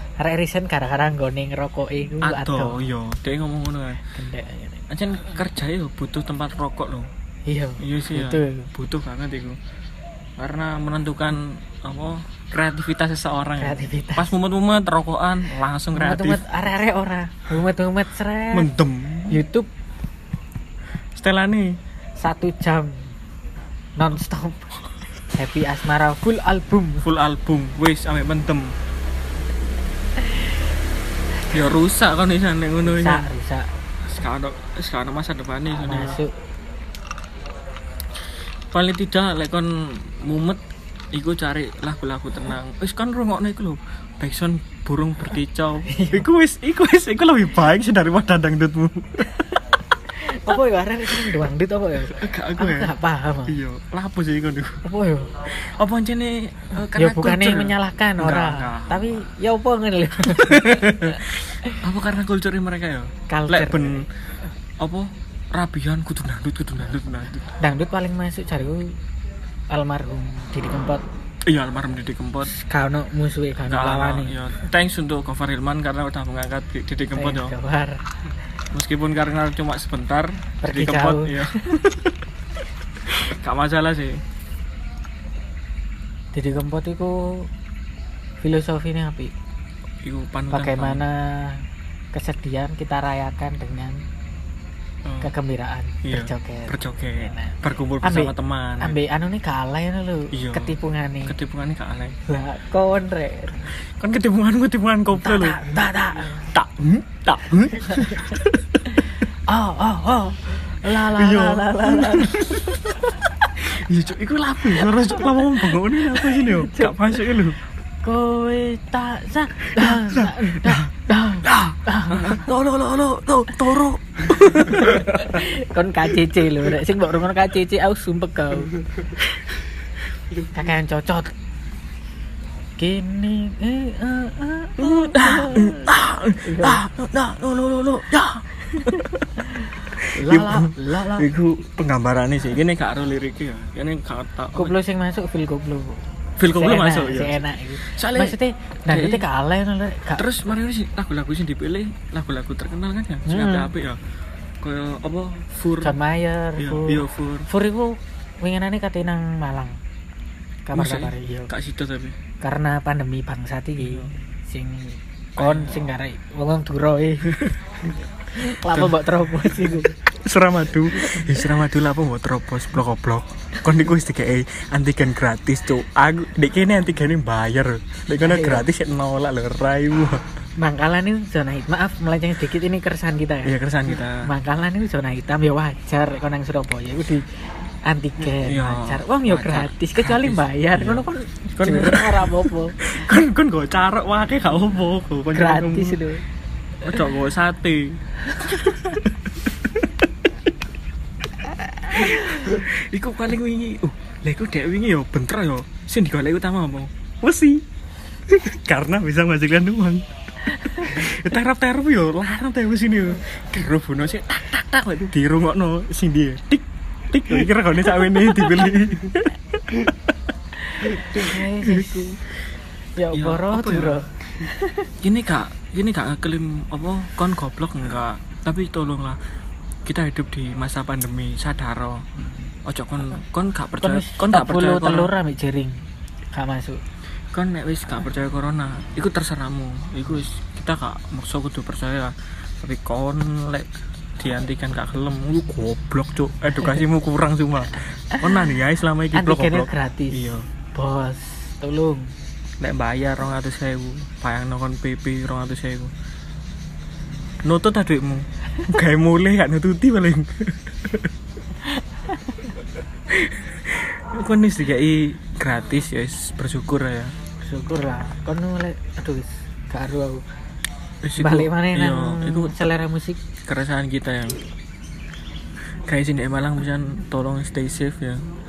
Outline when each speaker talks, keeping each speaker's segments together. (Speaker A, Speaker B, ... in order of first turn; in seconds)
Speaker A: 0.2-2.8, 4.0-4.8, 7.5-8.7, 13.6-14.3, 15.9-18.7, 19.3-19.7, 22.2-23.1, 24.0-27.1, 32.8-33.7, 35.7-36.4, 45.9-46.3, 50.1-53.6, 54.8-55.5, 56.9-61.8, 63.3-64.1, 67.6-69.0, 69.7-71.0, 72.5-74.3, 77.2-78.0, 80.6-81.8, 86.3-87.5, 88.4-89.3, 90.5-94.0, 95.2-101.4, 102.3-103.7, 105.1-106.5, 107.9-108.2, 108.9-113.3, 114.8-117.4, 118.0-122.5, 124.5-128.8, 130.5-131.3, 132.8-136.8, 138.8-141.3, 144.6-150.2, 153.3-153.7, 155.8-159.8, 160.7-161.5, 162.4-167.4, 168.3-169.9, 171.1-171.4, 178.2-178.7, 180.6-183.6, 184.2-187.3, 187.8-192.8, 195.3-196.2, 201.9-202.4, 220.7-222.2, 223.0-224.9, 232.2-232.5, 233.8-235.8, 236.3-236.8, 248.1-248.5, 249.1-252.1, 267.4-270.2, 271.2-273.2
Speaker B: 2.2-4.0, 4.9-7.1, 7.8-9.6, 10.4-16.4, 18.5-19.4, 21.1-21.8, 27.0-28.8, 31.5-33.3, 34.0-36.2, 38.7-49.5, 52.1-54.9, 55.5-59.1, 60.2-64.1, 64.8-67.5, 71.5-72.5, 73.6-77.5, 78.7-82.2, 83.0-84.2, 90.0-91.0, 95.0-95.3, 96.0-99.0, 100.3-102.2, 104.0-105.7, 106.5-108.8, 111.0-117.6, 119.7-120.9, 121.4-125.5, 134.8-144.8, 146.4-149.3, 150.2-154.0, 154.6-156.0, 156.6-157.5, 160.8-162.2, 163.8-164.2, 165.4-165.9, 167.3-168.0, 168.7-180.2, 183.4-184.3, 188.3-196.0, 196.8-199.9, 201.9-207.7, 208.3-220.1, 220.8-222.1, 223.1-224.0, 225.0-229.2, 229.8-232.1, 232.7-235.1, 237.3-250.5, 252.6-255.9, 257.4-261.1, 263.1-267.1, 271.0-272.6, 273.4-274.4, 275.9-278.3